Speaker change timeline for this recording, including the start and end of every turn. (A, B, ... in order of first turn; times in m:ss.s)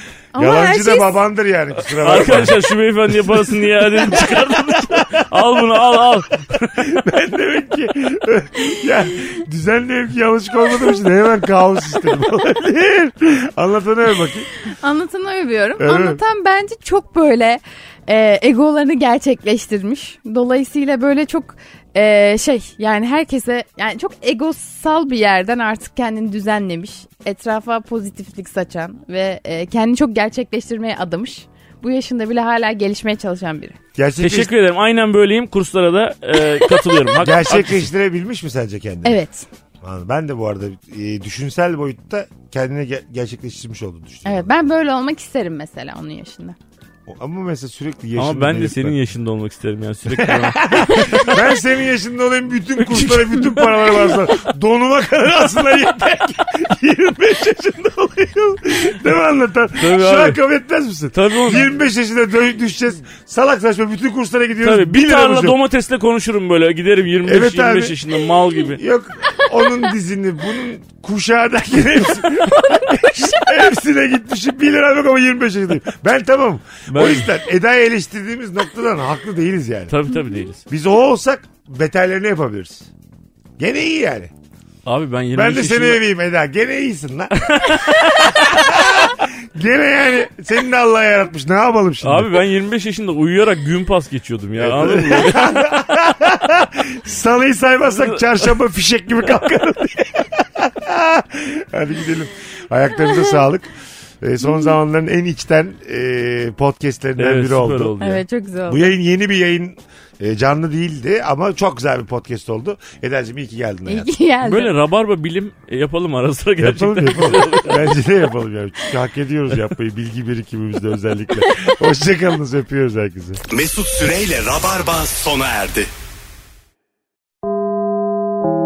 0:00.3-0:01.2 A
0:00.3-0:14.5 B
0:02.0-0:06.8 C
0:14.6-0:33.8 A
0:15.8-0:16.2 B
0:33.9-0:34.5 B
0:34.2-0:37.9 C
0:37.2-0:39.2 B
0:39.0-0:39.5 A
0:39.8-0:44.5 B
0:44.2-0:46.6 A
0:47.1-0:49.0 B
0:48.2-0:51.4 C
0:50.1-1:05.6 B
0:52.8-0:54.1 C
0:59.8-1:00.4 C
1:01.1-1:01.7 C
1:04.6-1:08.8 C
1:07.2-1:08.0 B
1:08.7-1:20.0 B
1:09.2-1:09.8 A
1:12.3-1:13.7 A
1:16.9-1:17.3 C
1:19.9-1:20.6 C
1:20.7-1:22.9 B
1:23.6-1:24.3 B
1:24.8-1:26.0 C
1:25.3-1:32.3 B
1:27.4-1:28.3 C
1:32.0-1:35.5 C
1:34.6-1:48.0 B
1:47.2-1:48.2 C
1:48.0-1:48.9 A
1:48.7-1:54.1 B
1:53.9-1:54.7 A
1:54.4-1:57.8 C
1:56.6-2:03.4 B
2:03.5-2:05.9 D